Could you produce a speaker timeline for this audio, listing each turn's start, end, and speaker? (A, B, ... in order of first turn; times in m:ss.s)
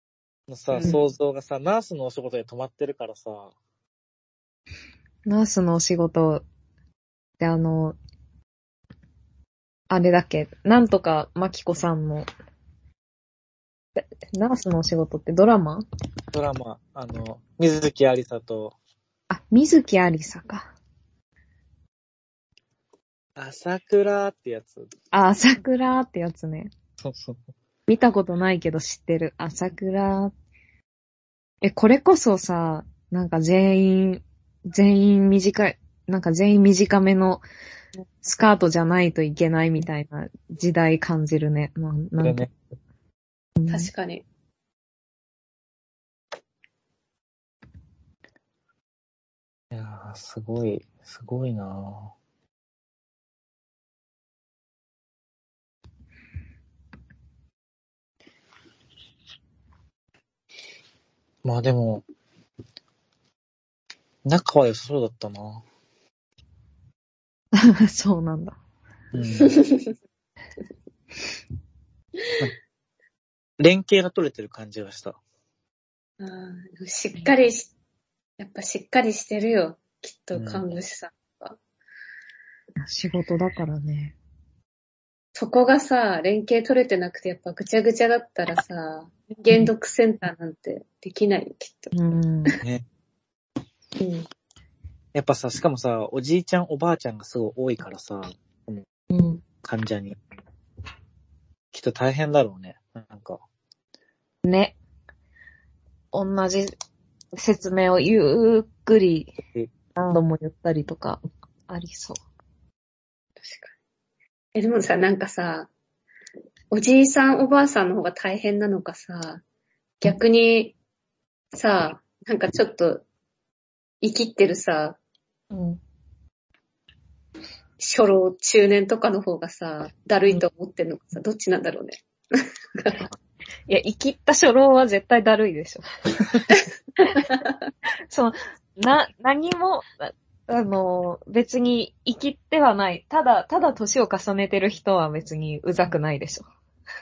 0:00.5-0:03.5 A
0:00.7-0:01.0 B
0:05.2-0:06.4 C
0:07.4-0:08.0 C
0:09.9-0:12.3 C
0:14.0-0:15.8 C
0:16.3-0:18.7 A
0:19.3-0:20.7 C
0:23.4-0:24.9 A
0:25.1-0:26.7 C
0:27.0-0:27.4 A
0:27.9-0:30.3 C
0:31.6-0:37.4 C
0:38.2-0:42.4 C
0:42.2-0:42.5 A
0:43.6-0:43.9 C
0:43.7-0:44.2 B
0:49.7-0:52.1 A
1:01.4-1:02.0 A
1:04.2-1:05.6 A
1:07.5-1:08.6 C
1:09.1-1:09.6 A
1:09.4-1:09.9 B
1:13.6-1:15.2 A
1:16.2-1:17.7 B
1:18.4-1:21.6 B
1:20.3-1:20.6 A
1:22.8-1:24.1 C
1:25.3-1:32.0 B
1:31.9-1:32.6 C
1:34.0-1:34.3 B
1:35.1-1:38.8 A
1:39.1-1:39.4 C
1:39.6-1:40.2 A
1:41.7-1:43.4 A
1:44.4-1:44.8 C
1:46.1-1:46.7 C
1:47.3-1:49.3 C
1:50.0-1:52.2 C
1:53.4-1:53.7 B
1:54.5-1:55.7 B
1:56.7-1:59.4 B
2:00.0-2:00.8 B
2:01.5-2:03.0 B
2:04.0-2:05.0 B
2:05.5-2:05.8 C
2:07.8-2:13.0 B
2:13.7-2:16.4 C
2:16.6-2:17.5 B
2:18.1-2:26.4 C